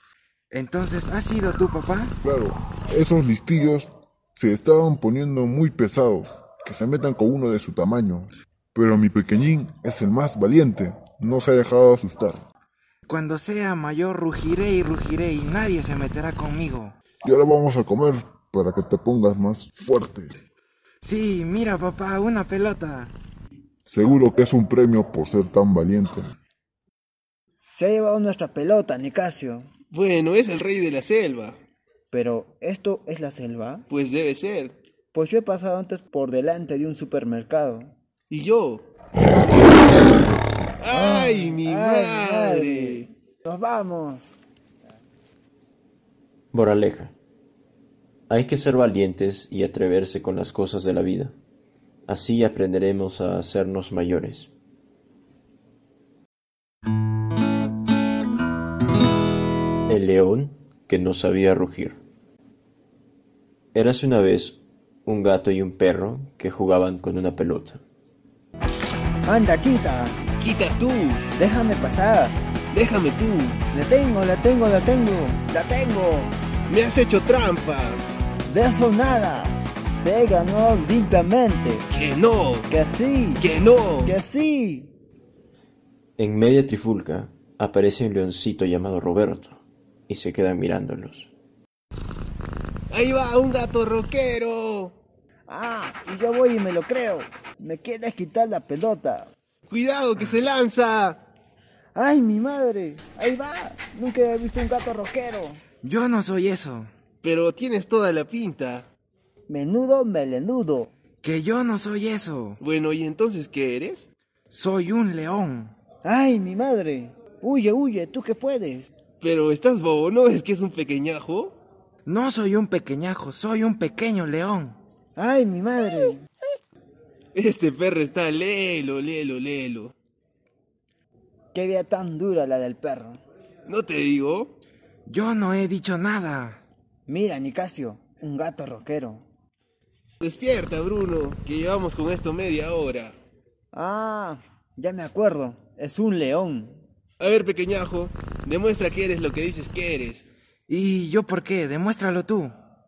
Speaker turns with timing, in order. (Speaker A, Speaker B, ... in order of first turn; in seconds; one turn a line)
Speaker A: 0.5-2.2
Speaker B: 2.2-12.5
Speaker A: 13.1-17.0
Speaker B: 17.2-20.3
Speaker A: 21.0-23.1
Speaker B: 23.9-26.3
Speaker C: 27.7-29.7
Speaker D: 29.9-31.6
Speaker C: 32.1-33.9
Speaker D: 33.9-34.8
Speaker C: 35.1-37.9
Speaker D: 38.3-38.9
Speaker D: 40.8-43.1
Speaker C: 40.9-44.4
Speaker E: 46.5-47.1
Speaker E: 48.3-51.3
Speaker E: 52.1-54.5
Speaker E: 59.9-62.0
Speaker E: 63.7-67.8
Speaker C: 69.2-70.2
Speaker D: 70.4-71.2
Speaker C: 71.4-72.4
Speaker D: 72.7-73.6
Speaker C: 73.7-76.3
Speaker D: 76.7-78.0
Speaker C: 78.5-81.9
Speaker D: 81.9-82.7
Speaker C: 82.7-83.4
Speaker D: 83.4-84.2
Speaker C: 84.0-84.9
Speaker E: 86.2-91.3
Speaker D: 92.9-94.9
Speaker C: 95.5-99.3
Speaker D: 99.7-101.2
Speaker C: 101.9-105.6
Speaker A: 105.8-106.9
Speaker D: 107.2-108.9
Speaker C: 109.5-110.9
Speaker A: 111.2-112.6
Speaker D: 112.6-114.1
Speaker A: 114.5-115.8
Speaker C: 116.0-118.9
Speaker D: 119.2-121.5
Speaker A: 122.1-124.8
Speaker C: 125.2-126.3
Speaker D: 127.3-129.9
Speaker C: 131.5-133.2
Speaker D: 133.7-134.5
Speaker A: 135.1-136.6
Speaker C: 137.1-139.2
Speaker D: 140.2-143.2
Speaker C: 143.7-146.8
Speaker D: 147.2-150.3
Speaker A: 150.7-152.5